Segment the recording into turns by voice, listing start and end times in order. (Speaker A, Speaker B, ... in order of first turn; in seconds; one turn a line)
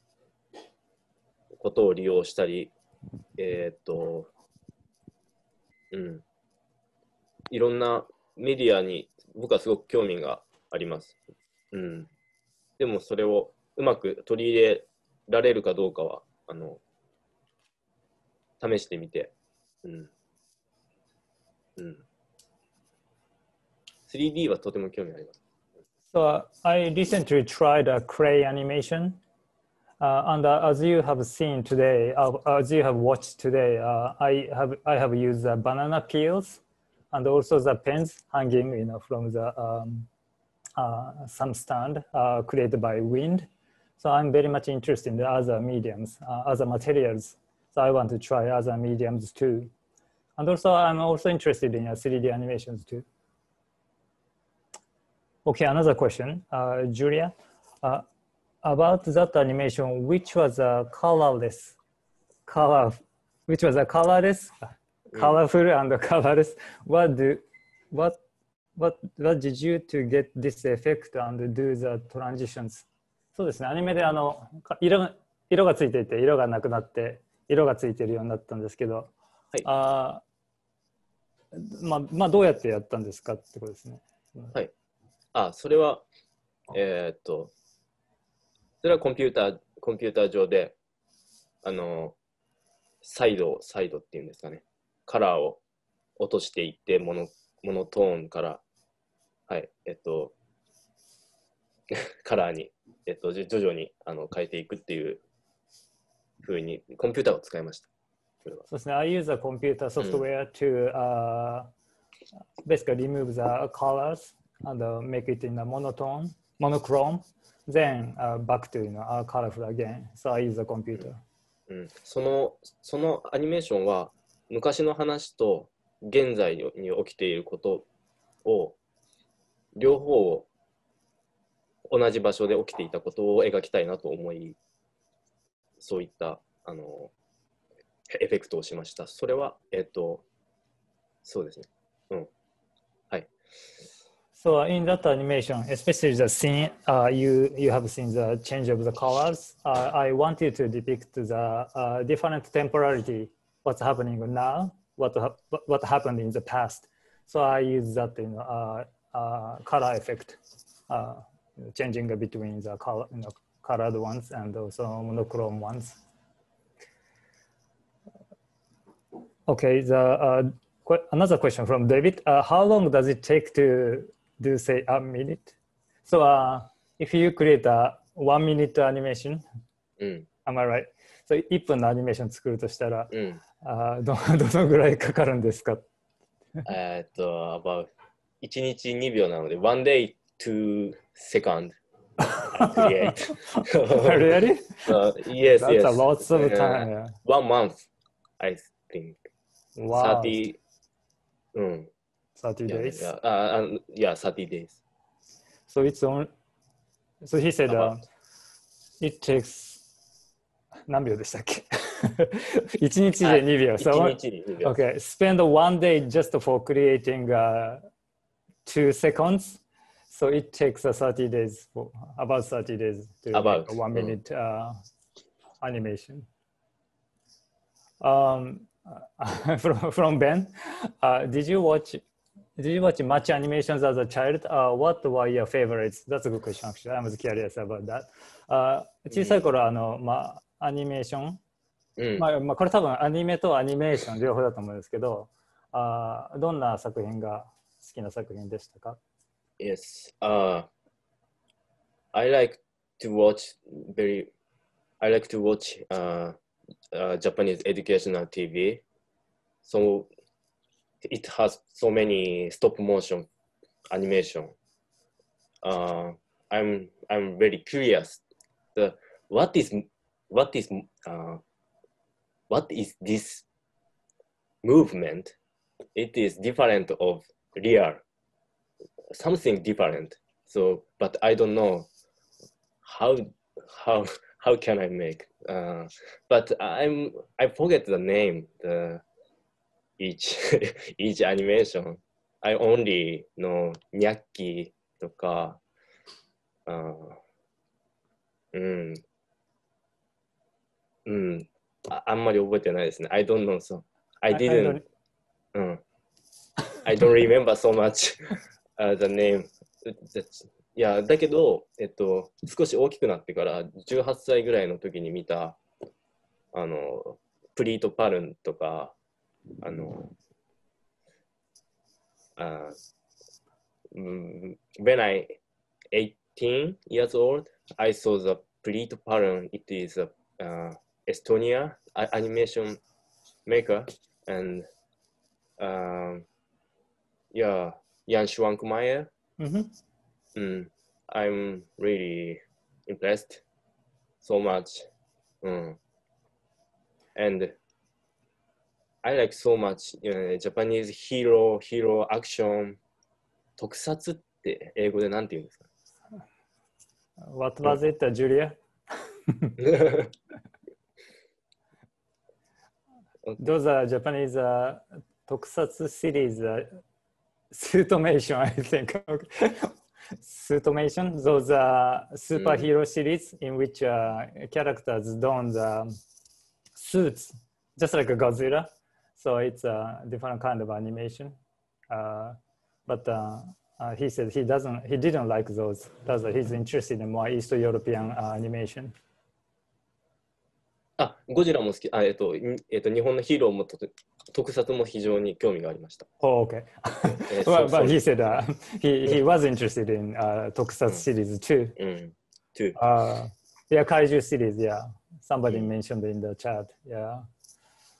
Speaker A: 1.5-2.7
Speaker A: 3.4-4.3
Speaker A: 5.9-6.2
Speaker A: 7.5-11.2
Speaker A: 11.7-12.1
Speaker A: 12.8-16.8
Speaker A: 18.6-19.3
Speaker A: 19.8-20.1
Speaker A: 21.8-22.0
Speaker A: 24.1-25.4
Speaker B: 26.1-29.2
Speaker B: 30.0-36.6
Speaker B: 37.1-40.1
Speaker B: 40.8-49.7
Speaker B: 50.4-53.0
Speaker B: 55.4-58.0
Speaker B: 58.6-61.8
Speaker B: 62.5-68.2
Speaker A: 65.1-65.4
Speaker B: 68.8-79.1
Speaker B: 79.6-80.2
Speaker B: 81.5-84.5
Speaker A: 85.3-86.0
Speaker A: 86.7-87.5
Speaker A: 88.8-90.8
Speaker A: 91.6-92.1
Speaker A: 93.0-95.6
Speaker A: 96.2-98.6
Speaker A: 99.5-100.3
Speaker A: 101.9-105.2
Speaker A: 106.4-107.9
Speaker B: 108.7-111.7
Speaker B: 112.6-121.2
Speaker A: 121.7-127.8
Speaker A: 128.4-128.8
Speaker A: 129.7-130.5
Speaker A: 131.9-134.6
Speaker A: 135.8-137.1
Speaker A: 138.1-140.2
Speaker A: 141.2-142.3
Speaker B: 144.3-160.4
Speaker B: 160.9-166.0
Speaker B: 169.5-175.5
Speaker B: 176.1-179.4
Speaker A: 180.0-180.3
Speaker B: 180.4-183.1
Speaker A: 183.1-183.4
Speaker B: 183.6-185.8
Speaker A: 186.6-187.9
Speaker A: 188.4-191.8
Speaker B: 192.3-194.9
Speaker A: 192.5-197.9
Speaker B: 195.6-197.1
Speaker A: 198.4-199.2
Speaker B: 199.8-200.3
Speaker A: 199.9-200.6
Speaker A: 201.5-201.9
Speaker B: 202.4-203.1
Speaker A: 202.7-204.8
Speaker B: 205.7-206.3
Speaker B: 207.2-208.0
Speaker A: 207.7-207.9
Speaker B: 209.0-209.8
Speaker B: 210.9-217.8
Speaker A: 213.2-214.7
Speaker B: 218.7-224.7
Speaker A: 223.3-224.2
Speaker B: 225.6-226.3
Speaker B: 228.0-232.0
Speaker B: 232.6-241.4
Speaker A: 239.1-239.4
Speaker A: 242.0-242.3
Speaker B: 242.2-249.0
Speaker A: 249.6-250.7
Speaker A: 252.1-254.3
Speaker A: 255.0-256.4
Speaker A: 256.9-258.8
Speaker A: 259.6-260.1
Speaker A: 261.0-263.3
Speaker A: 263.9-264.5
Speaker A: 265.6-268.2
Speaker A: 268.7-271.4
Speaker A: 272.5-273.4
Speaker A: 274.6-275.3
Speaker A: 275.9-278.0
Speaker A: 279.1-281.9
Speaker A: 282.8-289.0
Speaker A: 290.0-295.6
Speaker A: 296.7-297.2
Speaker A: 298.5-299.0
Speaker A: 301.1-304.8
Speaker B: 304.3-304.8
Speaker A: 305.5-305.8
Speaker A: 306.8-315.6
Speaker A: 316.5-318.9
Speaker A: 319.6-320.1
Speaker A: 322.4-322.8
Speaker A: 323.9-325.4
Speaker A: 325.9-332.8
Speaker A: 333.4-334.7
Speaker A: 335.6-336.2
Speaker A: 337.3-339.1
Speaker B: 339.4-339.7
Speaker A: 340.3-343.4
Speaker A: 344.2-344.9
Speaker A: 345.4-345.8
Speaker A: 347.1-347.5
Speaker A: 349.0-352.8
Speaker A: 353.6-355.6
Speaker B: 357.2-358.6
Speaker B: 359.3-359.5
Speaker A: 359.6-360.1
Speaker B: 363.4-366.8
Speaker B: 367.5-375.9
Speaker A: 372.4-372.7
Speaker B: 376.8-381.4
Speaker B: 381.9-388.9
Speaker A: 391.0-396.1
Speaker B: 396.2-401.7
Speaker A: 397.3-398.0
Speaker A: 401.8-402.8
Speaker B: 402.8-407.2